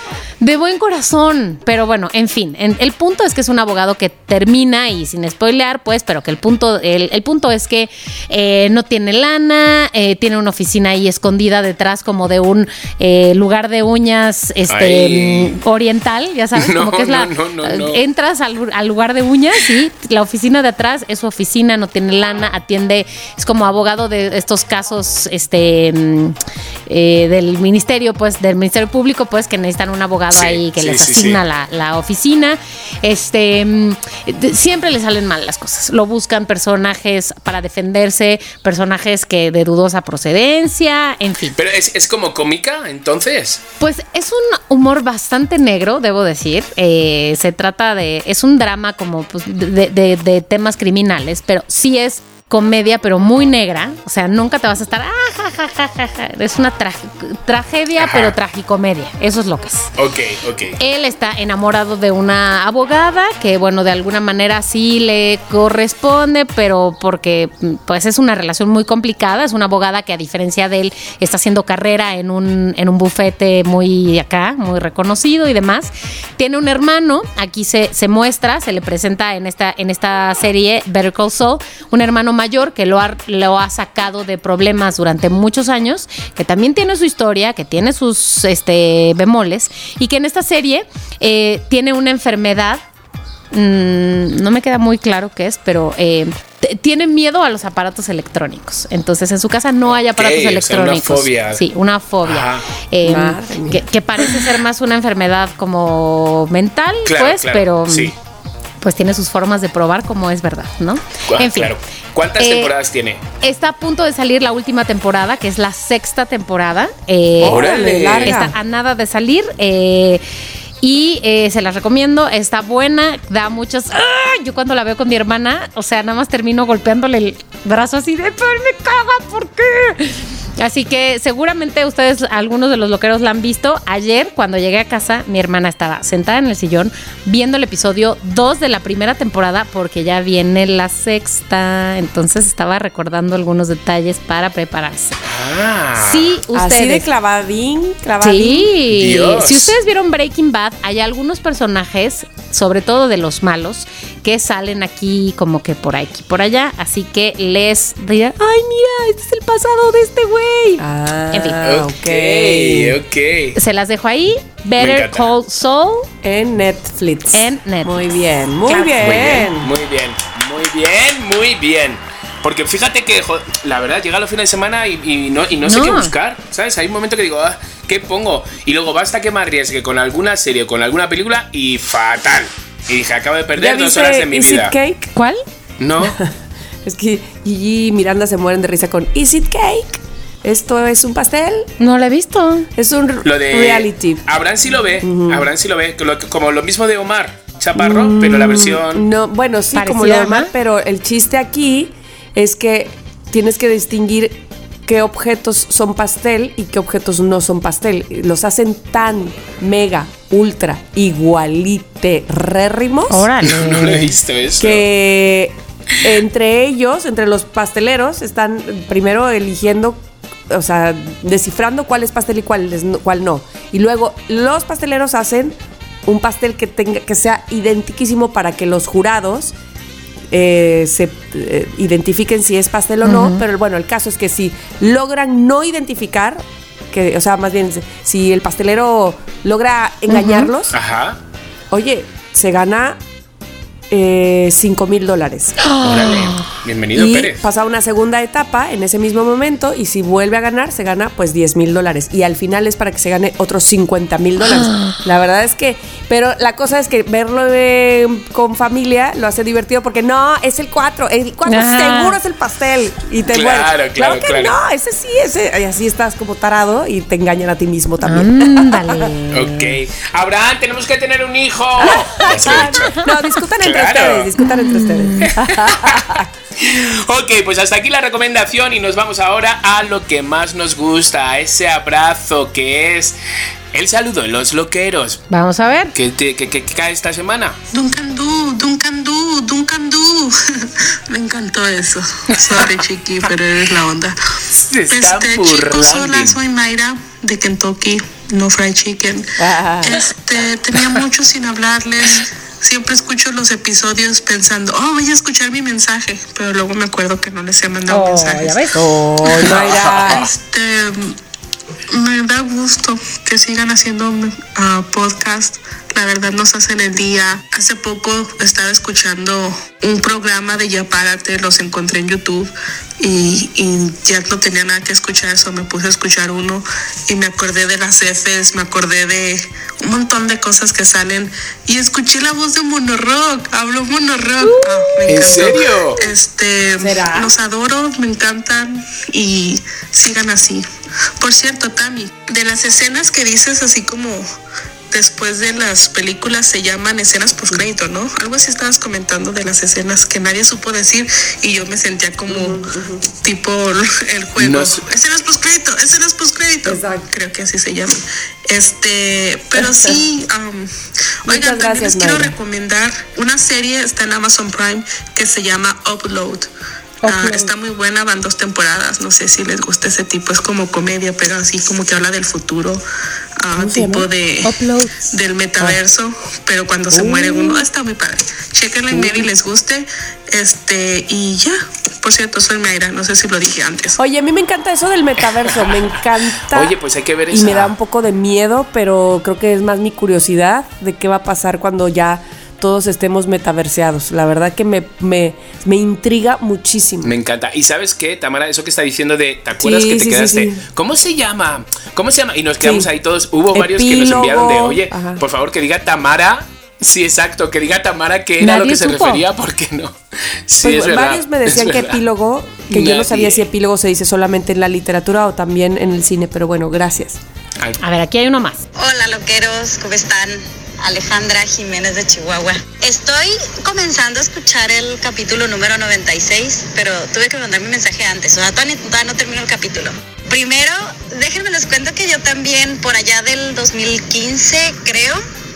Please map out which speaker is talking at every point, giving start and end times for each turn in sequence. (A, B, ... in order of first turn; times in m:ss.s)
0:00.4-0:41.6 A
0:14.7-0:15.6 B
0:16.6-0:18.0 B
0:30.3-0:31.4 B
0:41.6-0:43.6 B
0:43.8-0:59.9 A
0:58.0-0:58.4 B
1:00.0-1:00.8 B
1:00.8-1:32.8 A
1:33.5-1:48.1 A
1:39.9-1:41.6 B
1:42.2-1:42.6 B
1:43.0-1:43.8 C
1:47.0-1:48.2 B
1:48.8-1:51.7 A
1:51.3-1:53.2 B
1:52.4-1:52.7 A
1:53.4-2:00.2 A
1:57.4-1:58.6 C
1:57.4-1:58.4 B
2:00.8-2:25.2 A
2:25.2-2:26.4 B
2:26.0-2:27.1 A
2:26.5-2:28.7 C
2:28.2-2:41.6 A
2:28.9-2:29.8 B
2:40.8-2:43.0 C
2:41.6-2:43.6 B
2:43.6-2:46.1 A
2:44.8-2:45.3 B
2:46.2-2:49.7 C
2:47.3-2:48.0 A
2:48.7-2:49.0 A
2:49.0-3:04.7 B
2:55.6-2:56.1 A
3:03.6-3:05.1 C
3:05.2-3:05.4 A
3:05.8-3:06.2 B
3:06.0-3:06.3 C
3:06.8-3:11.7 C
3:11.8-3:12.7 A
3:12.8-3:14.2 C
3:13.2-3:19.0 B
3:15.0-3:15.5 C
3:17.8-3:33.3 C
3:19.7-3:20.5 A
3:33.1-3:34.1 A
3:33.4-3:34.8 B
3:34.6-3:49.5 C
3:50.3-4:00.8 C
3:53.0-3:53.4 A
4:00.1-4:00.5 A
4:00.7-4:01.2 B
4:01.7-4:03.0 C
4:03.9-4:05.6 C
4:05.6-4:06.4 A
4:05.8-4:07.4 B
4:06.9-4:29.1 C
4:14.6-4:15.0 A
4:21.5-4:22.2 A
4:23.3-4:24.6 B
4:28.0-4:29.8 A
4:29.3-4:33.0 B
4:31.8-4:36.3 C
4:32.5-4:33.1 A
4:33.6-4:34.3 B
4:34.7-4:35.3 A
4:35.2-4:43.2 B
4:43.7-4:45.2 B
4:45.3-4:45.9 A
4:45.9-4:47.6 B
4:47.7-4:54.2 D
4:54.5-4:56.4 B
4:54.9-5:08.6 D
4:59.4-5:00.0 C
5:07.9-5:08.9 A
5:08.7-5:10.3 C
5:09.4-5:10.3 B
5:10.1-5:11.2 D
5:11.9-5:40.6 D
5:34.4-5:35.0 A
5:35.1-5:36.0 B
5:36.8-5:37.3 C
5:41.2-5:44.2 D
5:44.9-6:00.7 D
5:52.3-5:53.0 C
5:54.4-5:54.8 B
5:56.6-5:57.1 C
5:59.6-6:00.0 C
6:01.2-6:06.5 D
6:01.3-6:02.4 C
6:07.0-6:07.5 C
6:07.0-6:12.8 D
6:13.4-6:24.0 D
6:13.6-6:14.8 C
6:16.9-6:17.6 C
6:18.9-6:19.3 C
6:24.0-6:26.8 C
6:26.5-6:27.7 B
6:27.3-6:37.1 C
6:37.0-6:50.0 B
6:39.6-6:40.6 C
6:42.6-6:42.9 C
6:43.5-6:45.2 C
6:48.4-6:49.2 A
6:50.5-6:52.0 B
6:50.6-6:57.2 C
6:52.7-6:53.5 B
6:57.8-6:58.6 A
6:58.8-7:15.2 E